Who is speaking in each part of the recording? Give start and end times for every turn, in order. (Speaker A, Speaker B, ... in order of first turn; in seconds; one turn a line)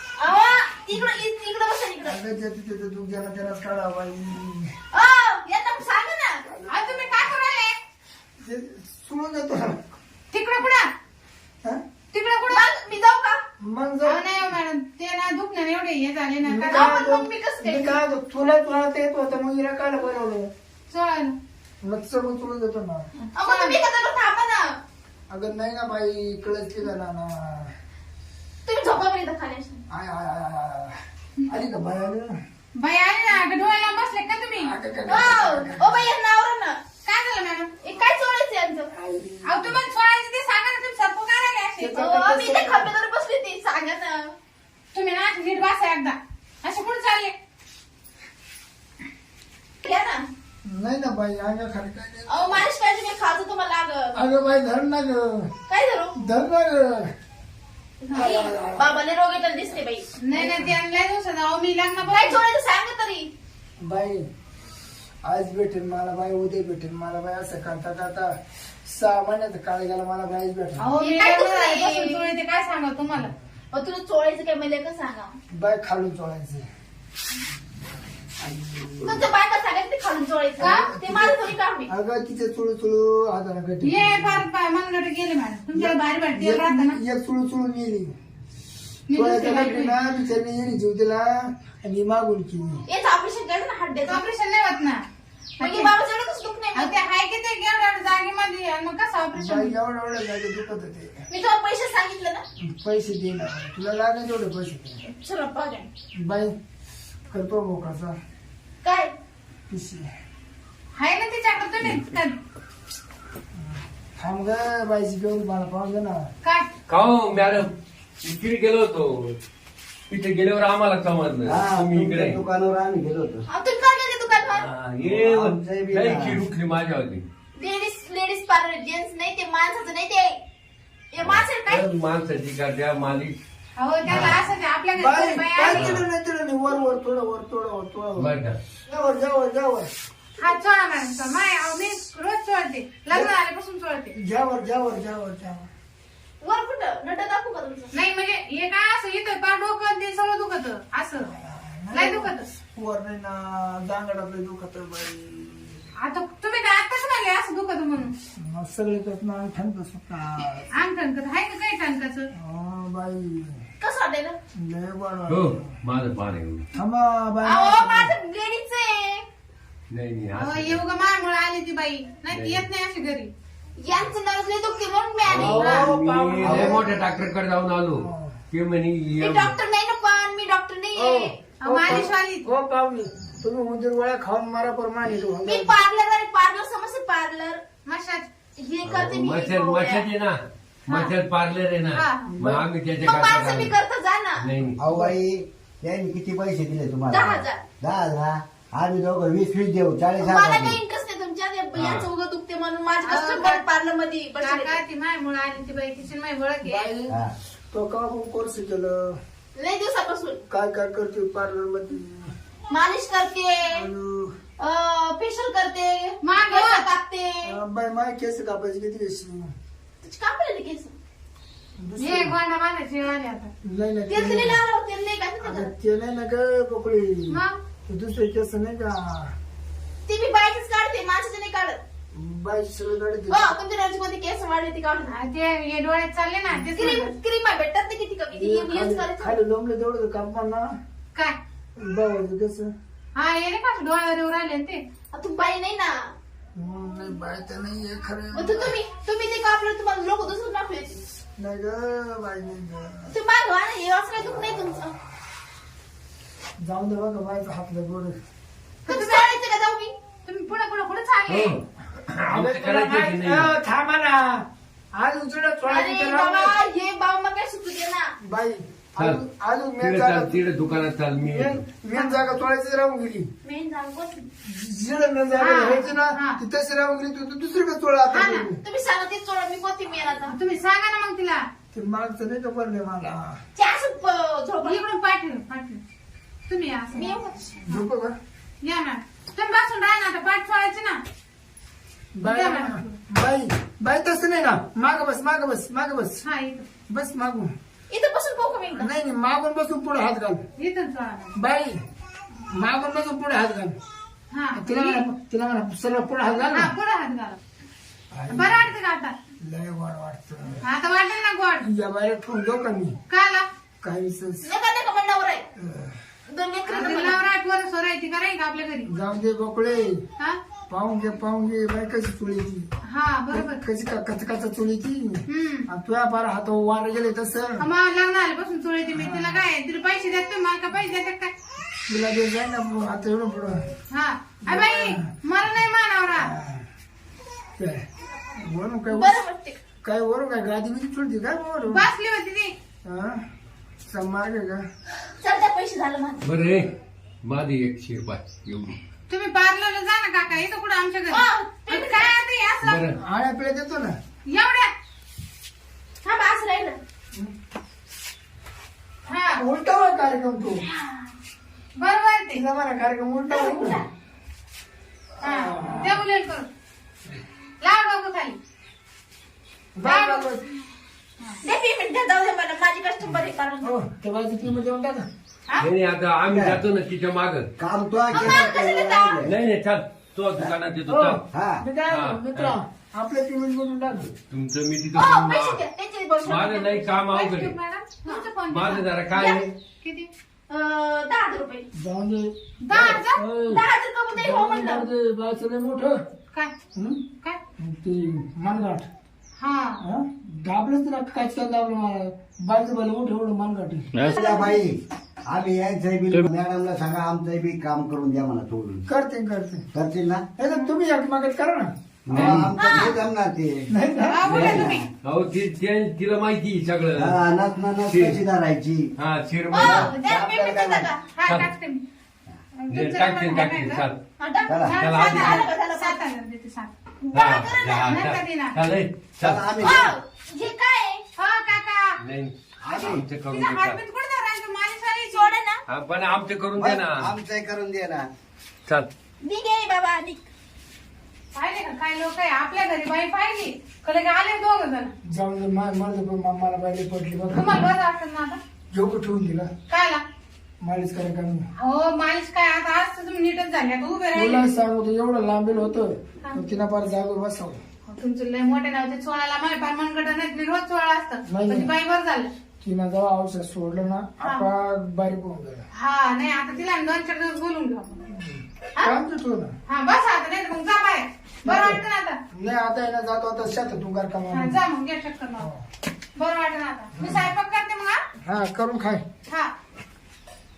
Speaker A: 0.2-2.2
Speaker B: 2.0-4.7
Speaker A: 4.9-6.4
Speaker B: 6.5-7.2
Speaker C: 6.7-7.8
Speaker B: 8.4-9.8
Speaker C: 10.3-10.9
Speaker C: 12.1-12.7
Speaker A: 12.5-13.4
Speaker B: 13.6-14.3
Speaker C: 14.1-16.9
Speaker B: 16.5-20.5
Speaker A: 16.7-18.0
Speaker C: 20.9-21.4
Speaker B: 21.8-23.1
Speaker A: 23.4-24.8
Speaker C: 23.4-23.8
Speaker B: 25.3-27.7
Speaker A: 28.7-29.8
Speaker B: 29.9-30.9
Speaker B: 31.5-32.3
Speaker C: 32.8-34.7
Speaker B: 34.6-36.1
Speaker A: 35.1-36.8
Speaker C: 37.0-37.7
Speaker A: 37.8-38.9
Speaker B: 38.9-39.8
Speaker C: 39.5-42.0
Speaker B: 41.8-42.9
Speaker A: 42.0-44.3
Speaker C: 44.9-47.3
Speaker A: 49.8-50.3
Speaker B: 50.6-52.7
Speaker A: 52.3-54.1
Speaker B: 54.1-55.5
Speaker A: 55.7-56.2
Speaker B: 56.2-57.1
Speaker A: 58.0-60.1
Speaker B: 58.1-58.9
Speaker C: 60.2-62.4
Speaker B: 60.3-60.8
Speaker A: 62.1-63.3
Speaker B: 63.8-64.3
Speaker B: 65.2-68.3
Speaker B: 68.9-70.8
Speaker C: 70.8-73.3
Speaker A: 71.0-72.3
Speaker A: 73.7-75.3
Speaker B: 75.5-76.7
Speaker B: 78.4-79.3
Speaker A: 79.0-81.9
Speaker B: 80.6-84.5
Speaker C: 80.6-80.9
Speaker C: 83.8-87.0
Speaker B: 85.7-88.1
Speaker C: 89.1-90.0
Speaker B: 89.1-92.8
Speaker A: 92.9-94.2
Speaker C: 94.0-95.0
Speaker C: 95.6-95.9
Speaker A: 95.6-96.9
Speaker C: 96.8-99.7
Speaker B: 99.4-101.2
Speaker A: 101.3-102.4
Speaker B: 102.6-105.0
Speaker A: 105.0-105.9
Speaker B: 106.2-106.5
Speaker B: 107.3-108.2
Speaker A: 108.8-109.2
Speaker B: 109.7-110.1
Speaker C: 111.0-112.4
Speaker B: 113.6-116.3
Speaker D: 116.9-117.7
Speaker D: 118.2-119.3
Speaker D: 120.1-122.4
Speaker E: 121.5-123.5
Speaker A: 123.5-124.7
Speaker D: 124.4-127.2
Speaker E: 125.0-126.4
Speaker A: 127.6-130.4
Speaker A: 131.1-131.8
Speaker D: 131.2-133.3
Speaker C: 133.8-135.9
Speaker D: 134.1-134.4
Speaker B: 134.9-138.3
Speaker D: 135.7-136.0
Speaker D: 138.2-138.6
Speaker B: 138.9-139.9
Speaker C: 140.4-144.2
Speaker B: 144.2-145.7
Speaker A: 146.4-147.9
Speaker C: 147.9-151.3
Speaker B: 151.2-155.8
Speaker C: 151.9-152.5
Speaker C: 156.0-158.1
Speaker B: 158.4-160.7
Speaker C: 160.7-162.3
Speaker B: 162.3-163.6
Speaker A: 163.8-164.4
Speaker B: 164.6-165.7
Speaker D: 165.3-166.6
Speaker B: 166.7-168.2
Speaker A: 167.4-169.2
Speaker D: 169.9-170.8
Speaker C: 170.4-173.3
Speaker D: 172.3-172.6
Speaker A: 173.8-175.9
Speaker D: 175.2-179.6
Speaker B: 175.4-176.8
Speaker E: 176.4-176.8
Speaker B: 178.0-178.4
Speaker A: 179.2-181.4
Speaker B: 181.0-185.8
Speaker C: 181.6-182.5
Speaker A: 185.4-187.6
Speaker C: 187.9-188.3
Speaker A: 188.6-190.1
Speaker D: 188.8-193.8
Speaker A: 190.9-191.1
Speaker C: 191.9-192.3
Speaker B: 192.3-192.6
Speaker A: 193.0-194.5
Speaker D: 194.4-194.8
Speaker E: 194.8-200.8
Speaker A: 197.1-197.7
Speaker A: 200.2-204.8
Speaker D: 201.8-202.1
Speaker C: 203.0-203.7
Speaker C: 204.4-206.9
Speaker B: 206.6-207.2
Speaker B: 207.7-209.2
Speaker A: 209.6-210.4
Speaker B: 210.5-212.3
Speaker A: 212.7-213.8
Speaker B: 213.7-214.3
Speaker A: 214.6-217.5
Speaker C: 216.2-216.9
Speaker B: 217.4-219.5
Speaker A: 220.0-221.0
Speaker B: 221.8-222.3
Speaker C: 222.0-223.5
Speaker B: 223.6-224.6
Speaker A: 224.1-225.7
Speaker B: 225.4-229.3
Speaker C: 227.3-227.6
Speaker A: 230.1-231.8
Speaker B: 232.1-233.5
Speaker A: 233.3-235.1
Speaker C: 235.1-237.1
Speaker A: 236.8-239.3
Speaker B: 238.3-240.7
Speaker B: 241.8-242.7
Speaker C: 243.2-244.8
Speaker A: 245.1-246.1
Speaker B: 246.6-248.8
Speaker A: 248.3-251.0
Speaker B: 251.4-253.1
Speaker A: 253.1-254.9
Speaker B: 256.6-258.2
Speaker C: 258.9-259.4
Speaker A: 258.9-259.9
Speaker C: 260.2-261.6
Speaker D: 261.3-263.5
Speaker B: 262.3-266.6
Speaker A: 265.7-268.1
Speaker B: 268.2-270.5
Speaker D: 269.8-271.6
Speaker B: 271.2-273.3
Speaker A: 273.4-274.3
Speaker B: 274.4-278.6
Speaker C: 275.4-276.4
Speaker C: 278.1-278.5
Speaker A: 278.6-280.3
Speaker C: 280.3-281.4
Speaker B: 281.7-283.4
Speaker A: 283.6-284.8
Speaker C: 284.6-285.8
Speaker C: 286.5-287.2
Speaker A: 286.9-287.6
Speaker B: 287.6-288.1
Speaker C: 288.6-291.0
Speaker B: 292.2-296.2
Speaker C: 292.2-292.9
Speaker C: 296.2-296.7
Speaker B: 296.9-297.5
Speaker A: 297.9-298.9
Speaker B: 298.7-300.4
Speaker C: 300.6-301.4
Speaker B: 301.4-301.8
Speaker B: 302.5-303.8
Speaker C: 304.3-305.0
Speaker B: 304.6-306.7
Speaker C: 306.5-307.4
Speaker B: 308.1-308.7
Speaker C: 308.3-309.1
Speaker B: 309.4-310.7
Speaker C: 310.6-311.7
Speaker B: 311.6-313.0
Speaker C: 313.1-313.4
Speaker B: 313.8-314.5
Speaker A: 314.4-315.4
Speaker B: 315.6-316.0
Speaker A: 316.3-317.2
Speaker C: 316.6-318.9
Speaker B: 318.9-320.0
Speaker B: 320.7-322.7
Speaker C: 322.8-323.6
Speaker B: 323.3-327.7
Speaker C: 325.3-325.7
Speaker C: 327.6-331.3
Speaker B: 328.9-329.4
Speaker B: 331.9-333.7
Speaker C: 333.9-336.3
Speaker B: 334.5-335.1
Speaker B: 336.1-336.7
Speaker B: 337.6-337.8
Speaker B: 338.4-339.2
Speaker A: 338.9-339.6
Speaker B: 339.8-341.9
Speaker C: 341.7-342.5
Speaker B: 342.8-343.2
Speaker B: 343.9-344.6
Speaker A: 345.2-346.2
Speaker D: 346.2-346.7
Speaker D: 347.2-348.8
Speaker C: 349.1-352.8
Speaker A: 351.1-352.2
Speaker D: 352.6-353.0
Speaker B: 353.0-353.9
Speaker C: 354.3-354.7
Speaker A: 356.0-356.8
Speaker C: 359.1-359.4
Speaker B: 359.4-360.7
Speaker C: 361.8-362.4
Speaker B: 362.3-363.8
Speaker A: 363.3-363.9
Speaker B: 365.2-366.0
Speaker C: 365.2-366.5
Speaker C: 367.6-368.4
Speaker B: 369.8-370.5
Speaker C: 369.8-370.3
Speaker A: 371.4-373.7
Speaker B: 373.6-375.1
Speaker D: 375.6-377.5
Speaker E: 376.3-376.6
Speaker E: 377.6-379.3
Speaker A: 378.1-379.2
Speaker D: 379.2-381.2
Speaker B: 380.9-384.1
Speaker E: 381.3-381.6
Speaker D: 381.9-382.6
Speaker D: 384.3-385.6
Speaker A: 384.9-386.9
Speaker D: 386.2-387.5
Speaker C: 387.1-388.9
Speaker D: 388.5-389.5
Speaker A: 389.2-389.5
Speaker C: 389.8-390.1
Speaker A: 390.5-391.7
Speaker B: 391.8-396.0
Speaker C: 392.6-393.2
Speaker A: 393.5-394.9
Speaker B: 396.8-397.0
Speaker B: 397.6-398.9
Speaker C: 399.4-399.8
Speaker B: 399.8-404.1
Speaker A: 404.1-404.6
Speaker E: 404.1-408.9
Speaker B: 408.9-409.7
Speaker E: 409.7-410.3
Speaker B: 410.4-412.5
Speaker E: 412.1-413.7
Speaker D: 412.1-413.0
Speaker A: 412.6-413.0
Speaker B: 413.7-414.3
Speaker C: 414.1-414.9
Speaker D: 414.3-417.2
Speaker E: 414.3-414.8
Speaker E: 417.0-418.9
Speaker D: 417.9-418.2
Speaker D: 419.0-419.9
Speaker A: 419.5-421.0
Speaker E: 419.6-420.9
Speaker C: 421.1-421.8
Speaker C: 422.6-423.9
Speaker D: 422.7-424.0
Speaker A: 424.2-426.0
Speaker E: 424.5-424.8
Speaker C: 424.7-426.7
Speaker D: 424.8-425.4
Speaker A: 427.0-428.0
Speaker D: 427.1-429.8
Speaker C: 427.9-428.6
Speaker E: 429.2-429.9
Speaker A: 429.6-431.0
Speaker C: 431.2-432.0
Speaker D: 432.0-433.8
Speaker E: 432.6-433.0
Speaker C: 432.7-435.3
Speaker A: 435.1-435.6
Speaker D: 435.7-437.1
Speaker E: 436.6-438.1
Speaker A: 439.2-440.3
Speaker C: 441.3-444.9
Speaker B: 445.1-447.7
Speaker C: 447.3-448.4
Speaker B: 448.7-449.5
Speaker C: 449.7-450.0
Speaker B: 450.6-451.5
Speaker C: 451.6-454.5
Speaker B: 454.1-457.6
Speaker C: 457.9-462.3
Speaker B: 461.3-461.7
Speaker B: 462.6-465.7
Speaker C: 464.2-464.5
Speaker C: 465.8-468.0
Speaker B: 468.1-469.5
Speaker C: 469.7-472.2
Speaker B: 471.4-471.8
Speaker B: 472.3-474.6
Speaker C: 474.3-475.5
Speaker C: 476.2-478.0
Speaker B: 477.0-477.3
Speaker B: 478.2-479.0